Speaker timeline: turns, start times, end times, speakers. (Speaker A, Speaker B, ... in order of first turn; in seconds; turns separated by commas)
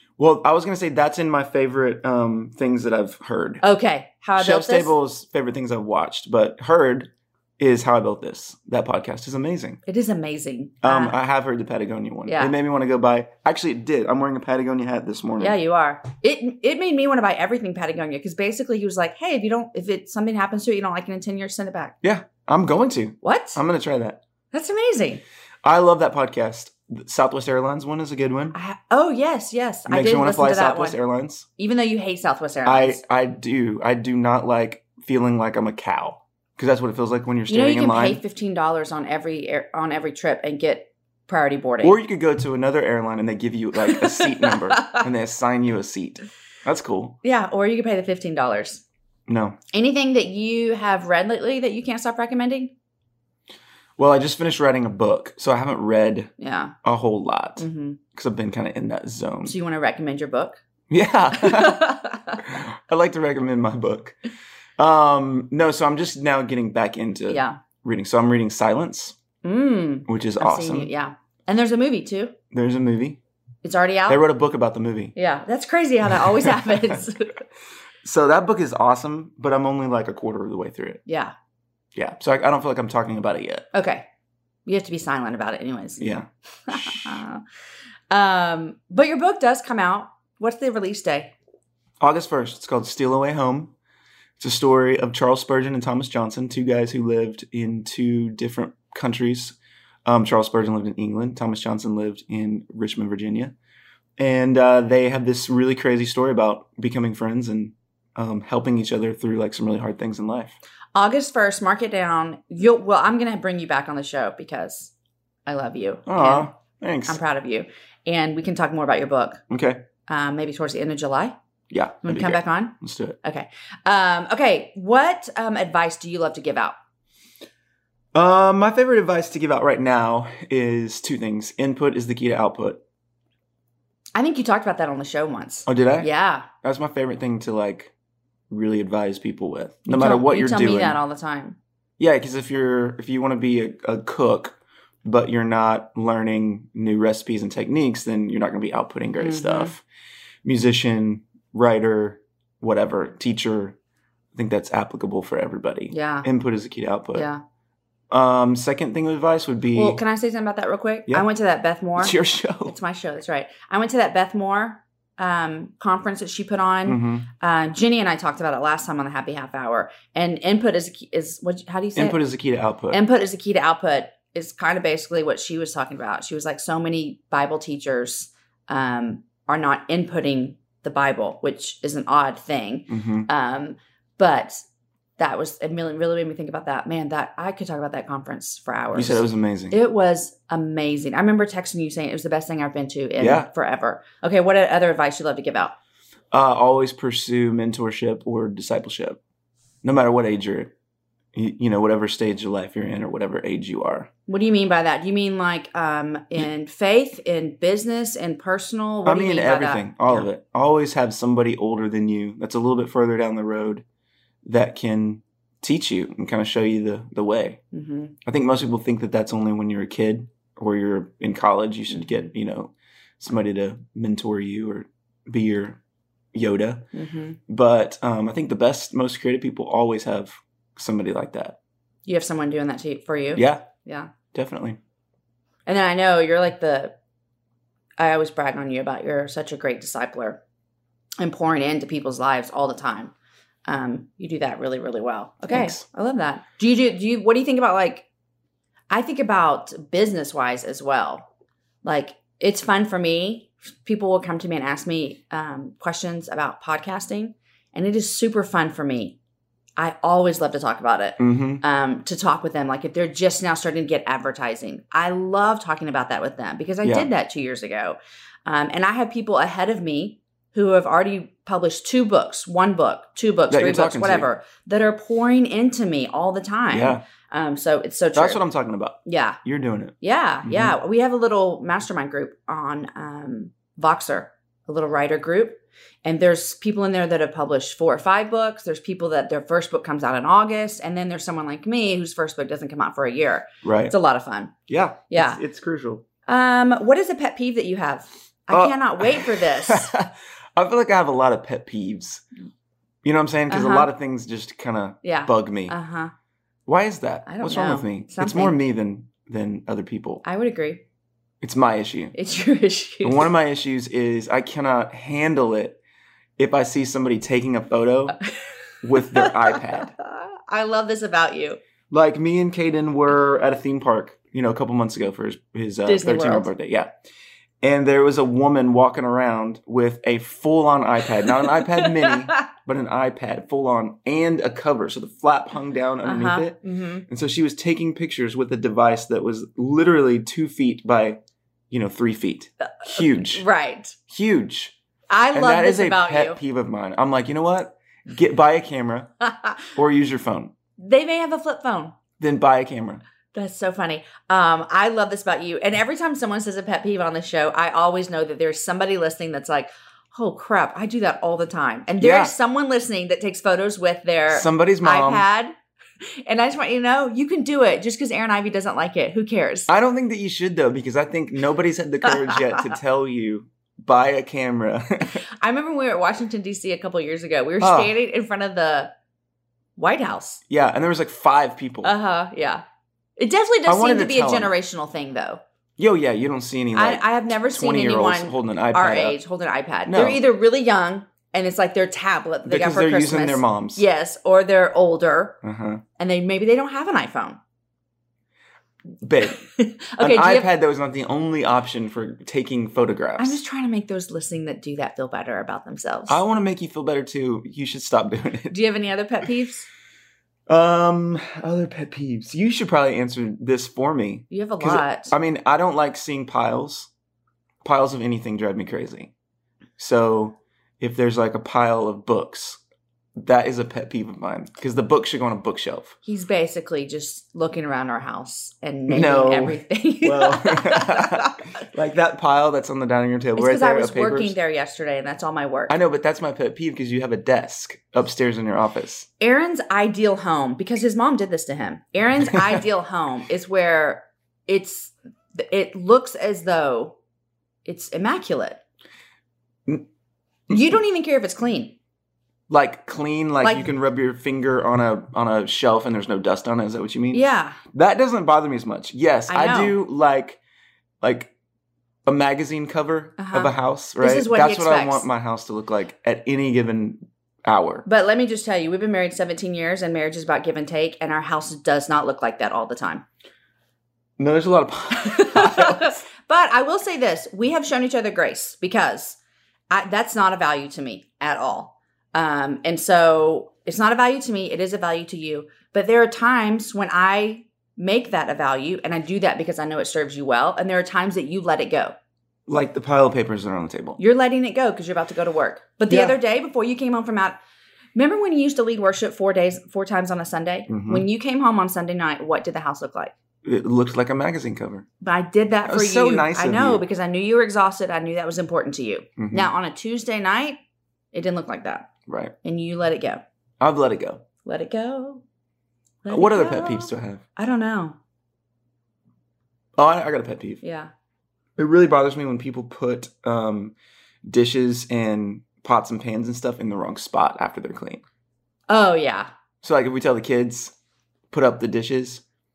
Speaker A: 0.2-3.6, Speaker B: 3.6-4.9, Speaker A: 4.4-9.8, Speaker B: 9.8-11.2, Speaker A: 10.8-15.6, Speaker B: 12.3-12.5, Speaker B: 15.4-21.9, Speaker A: 22.0-24.2, Speaker B: 23.2-23.6, Speaker B: 24.5-25.2, Speaker A: 25.6-28.6, Speaker B: 28.5-31.0, Speaker A: 29.9-31.5, Speaker B: 31.6-33.0, Speaker A: 32.6-38.2, Speaker B: 37.5-42.0, Speaker A: 41.8-47.2, Speaker B: 43.8-45.0, Speaker B: 47.2-48.8, Speaker A: 49.3-49.6, Speaker B: 49.7-52.7, Speaker A: 54.0-56.3, Speaker B: 56.4-56.7, Speaker A: 56.8-59.5, Speaker B: 57.6-58.0, Speaker B: 59.4-60.6, Speaker A: 60.9-64.2, Speaker B: 61.3-62.5, Speaker A: 64.8-69.2, Speaker B: 67.3-67.6, Speaker B: 69.4-72.3, Speaker A: 70.1-70.9, Speaker A: 72.5-73.2, Speaker B: 73.6-74.2, Speaker A: 74.1-75.1, Speaker B: 75.2-77.4, Speaker A: 78.0-81.0, Speaker B: 81.0-81.3, Speaker A: 81.9-83.7, Speaker B: 83.7-84.0, Speaker B: 84.7-86.0, Speaker A: 86.0-87.2, Speaker B: 86.7-87.4, Speaker B: 88.1-91.3, Speaker A: 92.0-93.7, Speaker A: 94.4-103.5, Speaker A: 104.2-110.5, Speaker B: 110.9-114.9, Speaker B: 115.5-116.5, Speaker A: 116.0-117.2, Speaker B: 117.0-119.4, Speaker A: 119.5-119.8, Speaker B: 120.1-121.3, Speaker A: 121.7-123.2, Speaker B: 122.0-126.7, Speaker A: 128.1-132.8, Speaker B: 134.1-136.5, Speaker A: 135.7-136.1, Speaker A: 136.6-137.9, Speaker A: 138.5-141.0, Speaker B: 139.9-141.6, Speaker A: 142.0-149.8, Speaker B: 149.2-149.7, Speaker A: 150.4-153.8, Speaker A: 154.3-157.3, Speaker B: 155.9-156.3, Speaker B: 157.1-157.4, Speaker A: 158.1-160.0, Speaker B: 159.7-172.2, Speaker A: 162.0-162.7, Speaker A: 166.8-167.3, Speaker A: 171.9-173.0, Speaker B: 172.9-184.6, Speaker A: 182.9-183.3, Speaker B: 185.2-195.7, Speaker A: 188.9-189.8, Speaker A: 193.2-193.5, Speaker A: 196.3-199.2, Speaker A: 199.8-200.7, Speaker A: 201.3-204.1, Speaker B: 204.3-210.3, Speaker A: 209.0-213.8, Speaker A: 214.4-217.6, Speaker B: 217.7-218.1, Speaker A: 218.2-225.8, Speaker A: 226.3-226.8, Speaker B: 226.9-227.4, Speaker A: 227.5-231.6, Speaker B: 232.1-234.1, Speaker A: 233.3-233.7, Speaker A: 234.3-234.8, Speaker B: 235.7-236.9, Speaker B: 238.0-240.4, Speaker B: 241.2-243.1, Speaker B: 243.7-248.1, Speaker A: 245.5-245.8, Speaker B: 248.9-251.2, Speaker B: 251.8-259.2, Speaker B: 259.8-278.4, Speaker A: 261.2-261.6, Speaker A: 266.8-267.1, Speaker A: 273.5-274.3, Speaker A: 276.7-277.0, Speaker A: 278.1-280.8, Speaker B: 279.0-279.4, Speaker B: 280.0-294.5, Speaker A: 293.6-293.9, Speaker A: 294.7-296.0, Speaker B: 295.1-295.4, Speaker B: 296.2-299.9, Speaker A: 298.5-302.2, Speaker A: 303.0-305.7, Speaker B: 303.5-303.9, Speaker B: 305.0-306.1, Speaker A: 306.6-310.2, Speaker B: 307.2-308.6, Speaker B: 310.2-310.8, Speaker A: 311.4-312.1, Speaker B: 312.1-313.3, Speaker A: 313.0-315.8, Speaker A: 316.4-318.2, Speaker A: 318.8-319.9, Speaker B: 318.9-321.6, Speaker A: 321.9-327.0, Speaker B: 325.9-326.5, Speaker A: 327.6-341.2, Speaker B: 331.3-332.4, Speaker B: 336.0-337.1, Speaker A: 341.7-343.4, Speaker B: 342.6-343.9, Speaker A: 344.1-344.7, Speaker B: 345.1-346.4, Speaker A: 345.3-349.1, Speaker B: 349.2-349.6, Speaker A: 349.7-350.5, Speaker B: 350.8-351.9, Speaker A: 352.2-353.0, Speaker B: 353.3-365.5, Speaker A: 362.0-362.3, Speaker A: 364.3-365.2, Speaker B: 366.2-369.7, Speaker A: 369.7-375.2, Speaker B: 372.3-372.6, Speaker B: 375.1-378.9, Speaker A: 377.6-377.9, Speaker B: 379.8-380.4, Speaker A: 380.5-381.9, Speaker B: 381.8-382.6, Speaker B: 383.2-385.4, Speaker A: 383.6-384.5, Speaker A: 385.8-389.2, Speaker B: 386.7-395.4, Speaker A: 389.9-390.2, Speaker A: 392.4-393.8, Speaker A: 395.4-395.8, Speaker B: 396.0-397.4, Speaker A: 399.0-399.4, Speaker B: 399.2-400.5, Speaker A: 400.0-403.4, Speaker B: 403.2-406.2, Speaker A: 406.1-408.5, Speaker B: 408.5-409.6, Speaker A: 410.5-416.9, Speaker B: 414.3-415.1, Speaker A: 417.6-419.1, Speaker A: 419.8-422.6, Speaker A: 423.2-425.9, Speaker B: 426.0-431.5, Speaker A: 428.9-434.4, Speaker B: 433.4-435.7, Speaker A: 435.7-439.1, Speaker B: 439.2-446.9, Speaker A: 442.3-442.6, Speaker B: 447.6-448.6, Speaker A: 450.5-450.8, Speaker B: 450.5-451.7, Speaker A: 452.5-460.4, Speaker B: 453.4-453.7, Speaker B: 457.1-457.6, Speaker B: 459.3-459.8, Speaker A: 461.0-461.3, Speaker A: 462.1-467.9, Speaker B: 463.2-465.1, Speaker B: 467.9-473.0, Speaker A: 474.2-476.0, Speaker B: 474.9-479.2, Speaker B: 479.7-491.9, Speaker A: 492.5-494.0, Speaker B: 494.0-497.4, Speaker A: 495.9-496.1, Speaker B: 497.9-503.1, Speaker A: 500.7-501.1, Speaker A: 503.4-504.9, Speaker B: 505.0-510.6, Speaker A: 505.6-506.8, Speaker A: 509.2-509.5, Speaker B: 511.1-511.9, Speaker A: 512.1-512.3, Speaker B: 512.4-513.2, Speaker A: 513.6-514.2, Speaker B: 514.4-515.2, Speaker B: 516.0-518.0, Speaker A: 516.1-517.2, Speaker A: 519.8-520.6, Speaker B: 520.6-520.9, Speaker A: 521.6-523.7, Speaker A: 524.2-528.0, Speaker B: 528.7-529.3, Speaker A: 529.6-530.7, Speaker A: 531.3-532.2